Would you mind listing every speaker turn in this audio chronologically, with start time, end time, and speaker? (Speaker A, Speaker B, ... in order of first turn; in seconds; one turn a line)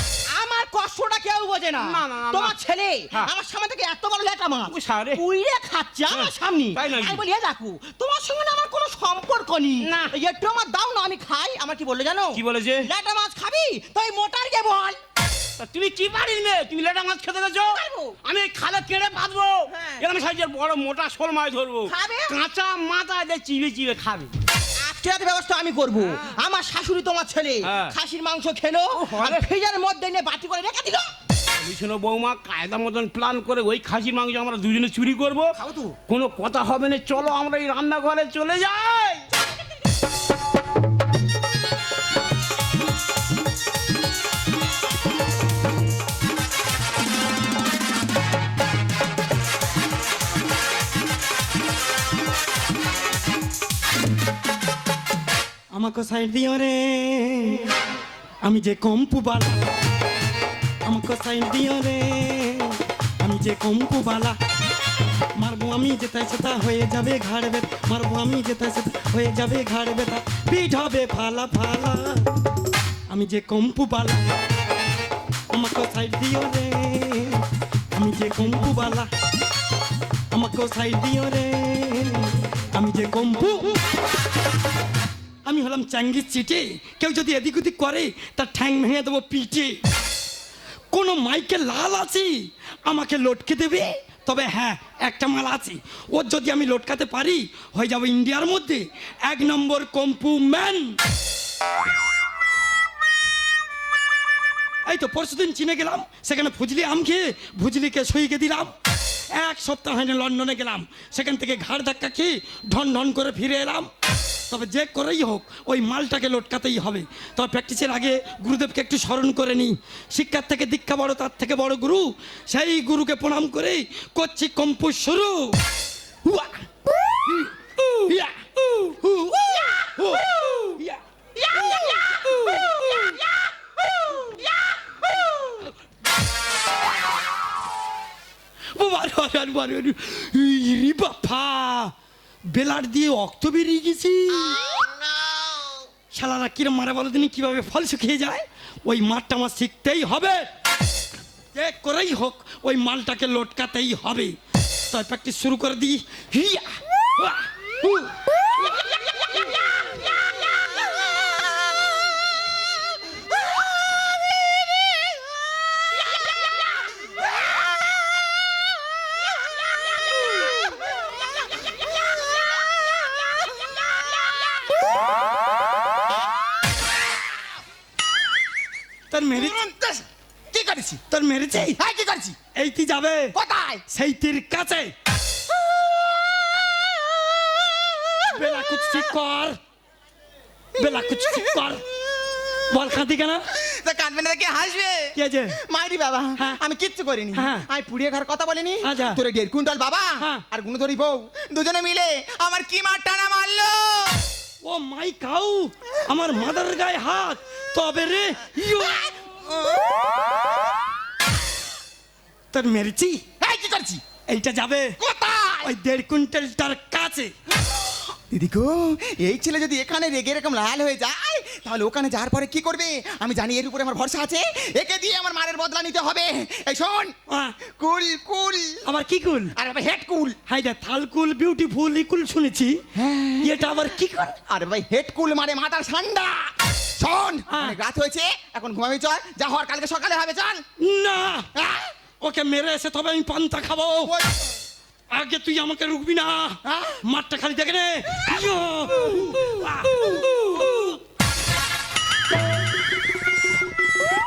Speaker A: 0.3-15.0
Speaker B: 1.8-2.6
Speaker B: 4.7-5.2
Speaker B: 6.1-7.2
Speaker B: 9.8-10.2
Speaker B: 12.3-12.9
Speaker B: 15.6-24.3
Speaker A: 17.7-18.2
Speaker A: 19.7-20.0
Speaker A: 21.9-22.4
Speaker A: 24.8-31.1
Speaker B: 27.6-27.9
Speaker B: 29.0-29.4
Speaker B: 31.6-35.5
Speaker A: 35.6-36.0
Speaker B: 36.1-39.3
Speaker C: 55.7-57.7
Speaker C: 58.4-59.7
Speaker C: 60.9-64.4
Speaker C: 65.4-72.3
Speaker C: 73.1-74.2
Speaker C: 75.5-79.1
Speaker C: 80.3-83.8
Speaker C: 85.5-89.8
Speaker C: 90.9-92.3
Speaker C: 92.9-101.0
Speaker C: 104.9-108.7
Speaker C: 109.4-113.9
Speaker C: 114.5-125.6
Speaker C: 126.2-126.5
Speaker C: 127.3-131.0
Speaker C: 131.7-133.1
Speaker C: 138.8-141.9
Speaker C: 142.5-144.9
Speaker C: 146.1-150.4
Speaker C: 151.5-154.3
Speaker C: 154.9-156.7
Speaker C: 157.2-158.1
Speaker C: 179.1-179.6
Speaker D: 179.4-181.0
Speaker C: 181.1-181.8
Speaker D: 181.8-182.4
Speaker C: 182.6-183.4
Speaker D: 183.3-183.8
Speaker C: 183.9-184.9
Speaker C: 188.2-189.6
Speaker D: 190.8-191.6
Speaker C: 190.8-191.8
Speaker C: 192.7-193.4
Speaker D: 193.5-204.3
Speaker C: 195.2-195.6
Speaker C: 197.3-197.7
Speaker C: 198.8-199.2
Speaker C: 204.6-209.1
Speaker C: 212.5-213.2
Speaker D: 213.4-214.0
Speaker C: 214.3-215.0
Speaker D: 215.0-215.7
Speaker C: 215.6-217.3
Speaker D: 218.3-228.8
Speaker C: 227.3-227.6
Speaker C: 228.8-229.5
Speaker D: 229.6-230.4
Speaker C: 230.5-232.8
Speaker D: 232.9-233.5
Speaker C: 233.4-234.4
Speaker D: 234.4-240.6
Speaker C: 237.5-237.8
Speaker C: 240.8-241.5
Speaker D: 241.6-241.9
Speaker C: 242.2-244.1
Speaker D: 244.0-244.5
Speaker C: 245.1-251.0
Speaker D: 246.7-247.0